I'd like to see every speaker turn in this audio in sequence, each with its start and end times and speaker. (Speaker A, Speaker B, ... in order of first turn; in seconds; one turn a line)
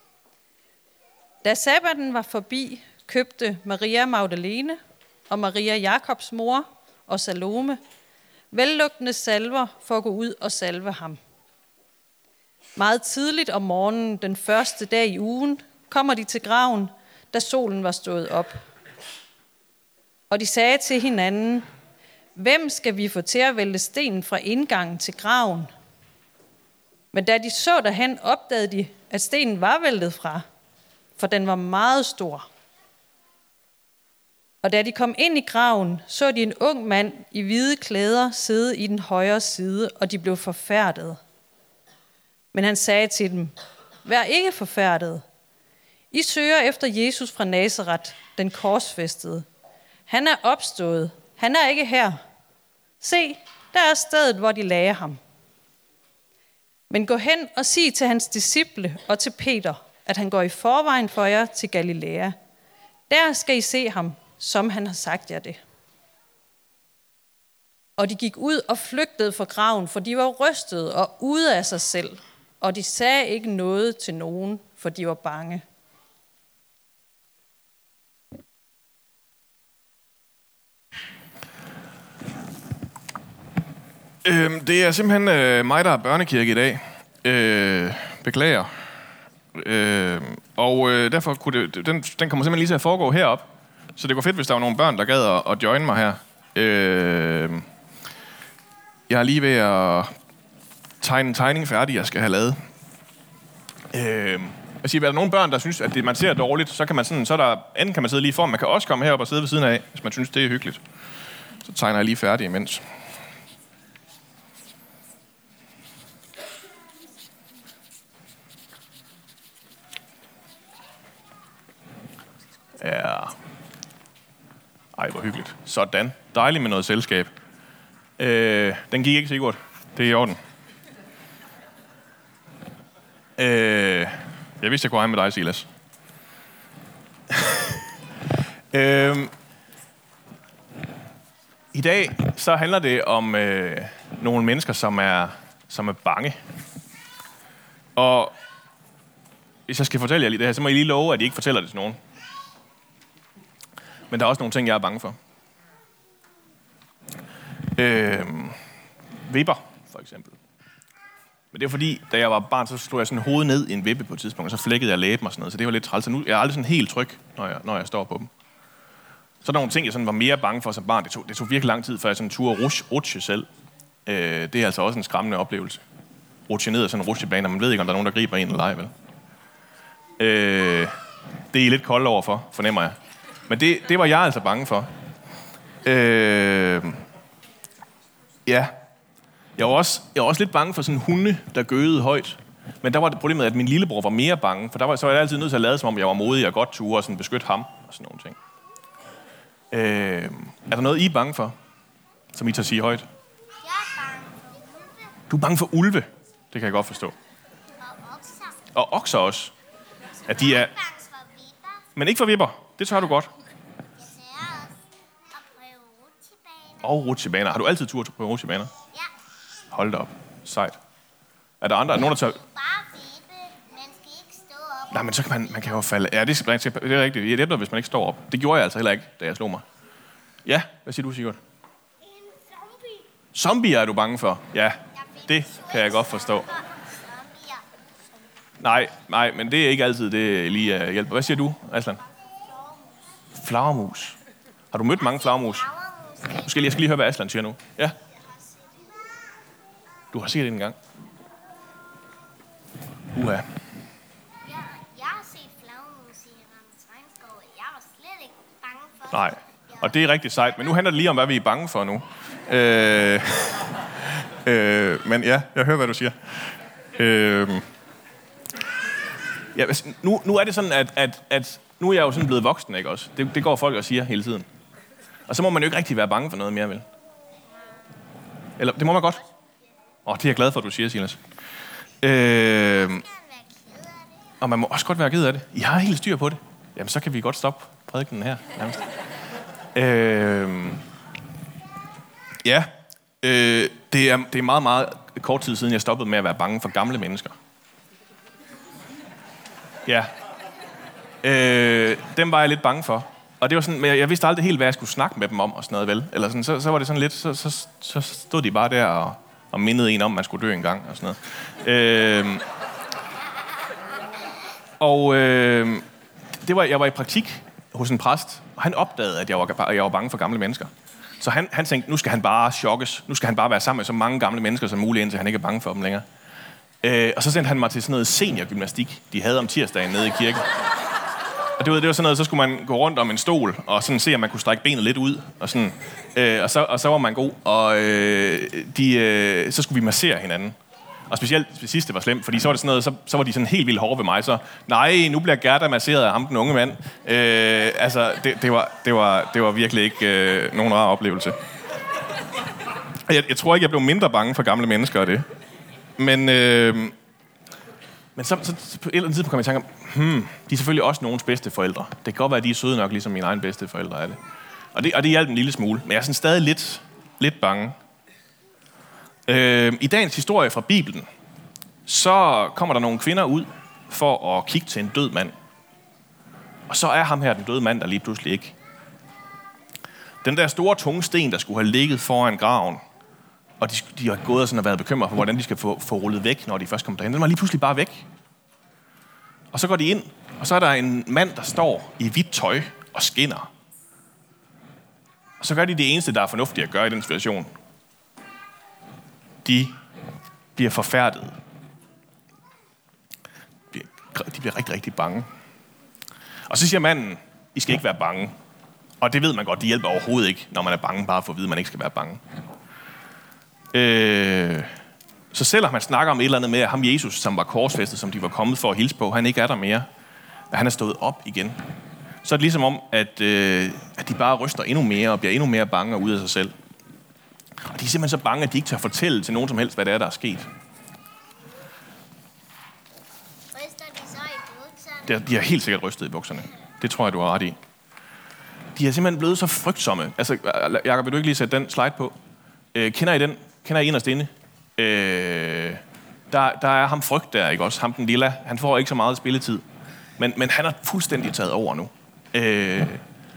Speaker A: 1.4-7.8
Speaker A: 8.5-11.2
Speaker A: 12.8-18.6
Speaker A: 20.3-21.6
Speaker A: 22.4-25.7
Speaker A: 27.1-30.4
Speaker A: 31.2-32.5
Speaker A: 34.6-41.2
Speaker A: 42.5-45.2
Speaker A: 46.1-49.5
Speaker A: 50.1-52.2
Speaker A: 53.0-55.2
Speaker A: 56.9-62.3
Speaker A: 63.1-65.6
Speaker A: 68.0-75.6
Speaker B: 84.2-88.7
Speaker B: 89.5-97.7
Speaker B: 99.1-100.1
Speaker B: 101.0-102.6
Speaker B: 103.9-110.8
Speaker B: 111.6-112.8
Speaker B: 122.8-123.3
Speaker B: 124.9-127.3
Speaker B: 128.2-130.4
Speaker B: 133.4-135.7
Speaker B: 137.3-137.8
Speaker B: 138.7-139.3
Speaker B: 141.7-146.4
Speaker B: 147.9-148.3
Speaker B: 149.7-152.0
Speaker B: 154.1-155.2
Speaker B: 157.7-158.6
Speaker B: 159.2-160.4
Speaker B: 161.5-168.3
Speaker B: 169.4-173.5
Speaker B: 174.1-175.8
Speaker B: 176.5-178.9
Speaker B: 180.2-181.0
Speaker B: 181.5-183.0
Speaker B: 183.5-184.9
Speaker B: 185.8-187.0
Speaker B: 188.4-188.7
Speaker B: 189.6-198.3
Speaker B: 199.7-201.6
Speaker B: 202.3-203.1
Speaker C: 203.6-205.1
Speaker B: 205.3-207.2
Speaker C: 207.8-208.7
Speaker B: 208.7-209.5
Speaker B: 210.3-210.7
Speaker C: 210.3-211.9
Speaker B: 211.9-213.3
Speaker C: 214.0-214.8
Speaker C: 215.3-216.9
Speaker B: 216.8-218.7
Speaker B: 219.7-220.8
Speaker B: 221.6-222.4
Speaker C: 222.2-225.8
Speaker B: 224.9-229.7
Speaker B: 230.4-231.4
Speaker C: 232.0-233.0
Speaker B: 233.3-236.5
Speaker C: 234.9-237.6
Speaker B: 238.6-242.0
Speaker C: 242.4-243.1
Speaker B: 243.3-244.2
Speaker B: 244.7-245.7
Speaker C: 245.0-246.9
Speaker B: 246.3-248.0
Speaker C: 248.2-249.1
Speaker B: 250.1-250.8
Speaker B: 253.1-253.5
Speaker C: 254.4-259.9
Speaker B: 259.1-267.7
Speaker B: 269.5-274.5
Speaker B: 275.3-276.9
Speaker B: 278.6-279.2
Speaker B: 280.1-281.2
Speaker B: 282.0-283.1
Speaker C: 282.9-284.3
Speaker B: 284.4-288.9
Speaker B: 289.7-290.8
Speaker B: 292.4-297.4
Speaker B: 299.9-300.1
Speaker B: 301.2-312.4
Speaker B: 314.8-326.1
Speaker B: 326.8-330.5
Speaker B: 331.6-340.6
Speaker B: 341.1-351.4
Speaker B: 353.1-355.2
Speaker B: 356.0-357.0
Speaker B: 358.1-364.2
Speaker B: 364.7-367.8
Speaker B: 369.3-371.1
Speaker B: 371.9-375.4
Speaker B: 376.7-378.6
Speaker B: 380.2-382.8
Speaker B: 383.6-388.1
Speaker B: 389.5-393.5
Speaker B: 395.4-397.5
Speaker B: 399.4-399.8
Speaker B: 400.6-401.4
Speaker B: 403.7-405.3
Speaker B: 406.5-408.4
Speaker B: 409.0-412.2
Speaker B: 413.7-414.7
Speaker B: 415.3-419.9
Speaker B: 420.5-421.6
Speaker B: 422.2-426.5
Speaker B: 427.6-430.5
Speaker C: 433.5-435.4
Speaker B: 435.1-437.6
Speaker B: 438.8-442.1
Speaker B: 442.7-449.6
Speaker B: 450.2-453.0